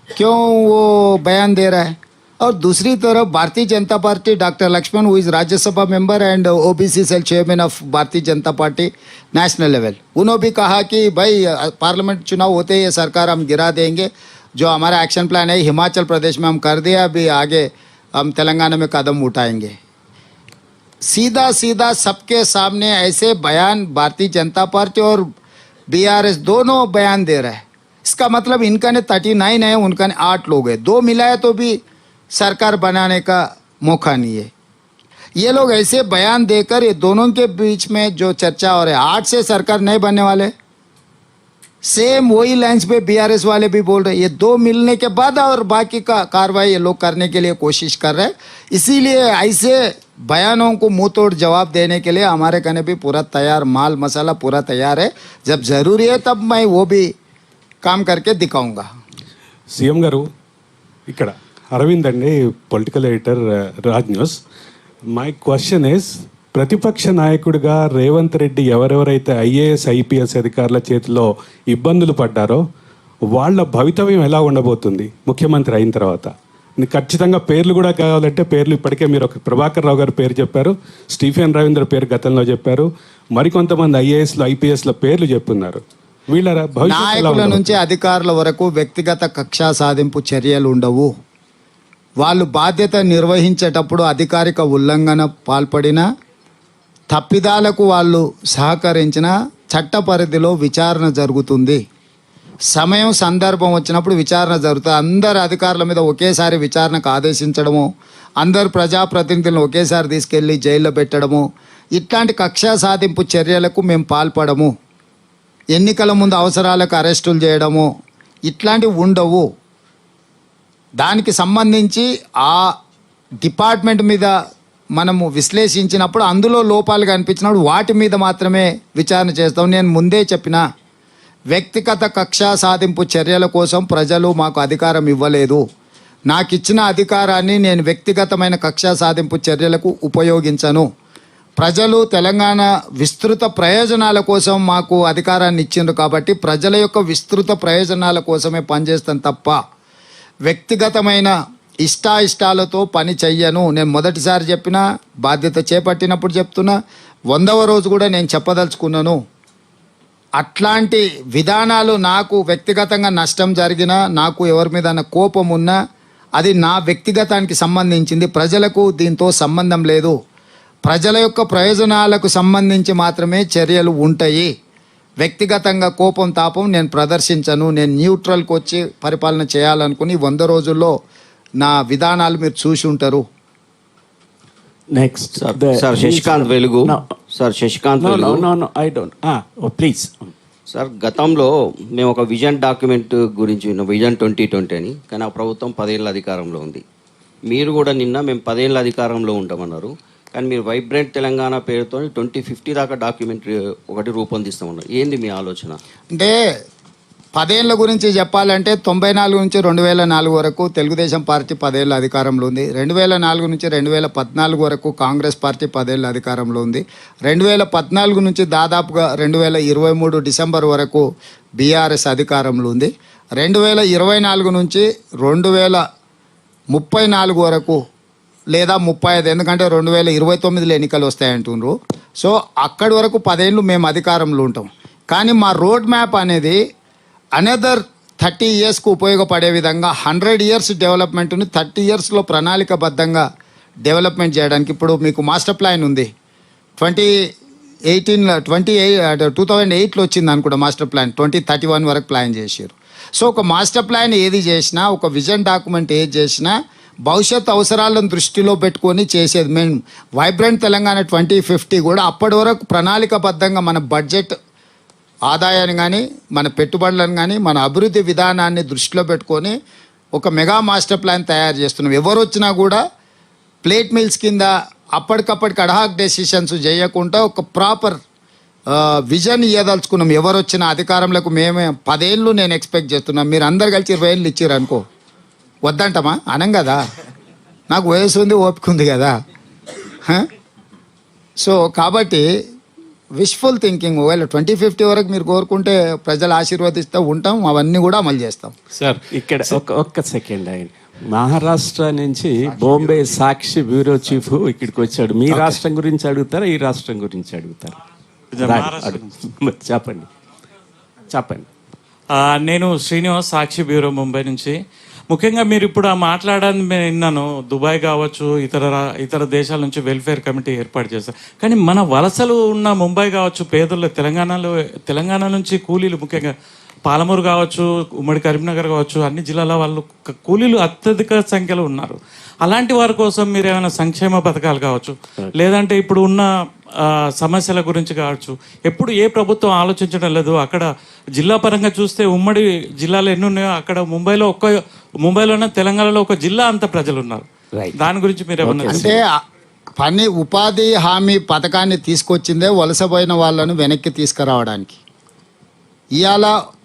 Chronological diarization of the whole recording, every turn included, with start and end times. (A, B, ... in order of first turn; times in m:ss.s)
0:00.1-0:19.8 A
0:21.1-0:25.2 A
0:25.9-0:31.8 A
0:32.4-0:34.5 A
0:35.4-0:40.5 A
0:41.8-0:57.1 A
0:57.8-0:58.8 A
0:59.7-1:00.2 B
1:01.1-1:04.4 B
1:05.1-1:12.6 B
1:13.3-1:27.8 B
1:26.8-1:31.1 A
1:32.2-1:36.0 A
1:37.1-1:41.8 A
1:42.7-1:47.9 A
1:48.4-1:54.7 A
1:55.8-1:57.9 A
1:58.5-1:59.4 A
2:01.0-2:02.7 A
2:03.4-2:04.3 A
2:04.9-2:10.6 A
2:11.5-2:15.6 A
2:16.3-2:20.9 A
2:21.6-2:29.6 A
2:30.5-2:36.7 A
2:37.3-2:39.2 A
2:40.4-2:45.8 A
2:46.4-2:50.2 A
2:50.8-2:54.5 A
2:55.2-3:01.0 A
3:01.6-3:03.2 A
3:04.9-3:07.0 C
3:05.4-3:08.5 D
3:08.0-3:10.3 C
3:10.7-3:16.8 D
3:17.5-3:25.8 D
3:27.3-3:41.0 A
3:41.6-3:45.8 A
3:46.7-3:47.8 A
3:48.5-3:56.6 A
3:57.4-4:03.2 A
4:03.8-4:06.1 A
4:06.8-4:07.2 A
4:07.9-4:16.5 A
4:17.0-4:24.4 A
4:25.3-4:29.6 A
4:30.1-4:32.8 A
4:33.6-4:38.0 A
4:38.7-4:44.8 A
4:45.6-4:46.8 A
4:47.7-4:49.2 A
4:51.4-4:52.2 A
4:53.2-4:58.5 A
4:59.1-5:07.8 C
5:05.3-5:05.6 E
5:08.4-5:09.1 E
5:08.4-5:10.1 C
5:11.1-5:11.5 C
5:12.1-5:14.6 E
5:15.1-5:26.3 E
5:26.9-5:36.3 E
5:36.8-5:44.5 E
5:45.0-5:47.2 E
5:47.8-5:49.0 E
5:48.4-5:49.0 C
5:48.7-5:49.2 A
5:49.8-5:54.8 A
5:56.0-5:56.3 A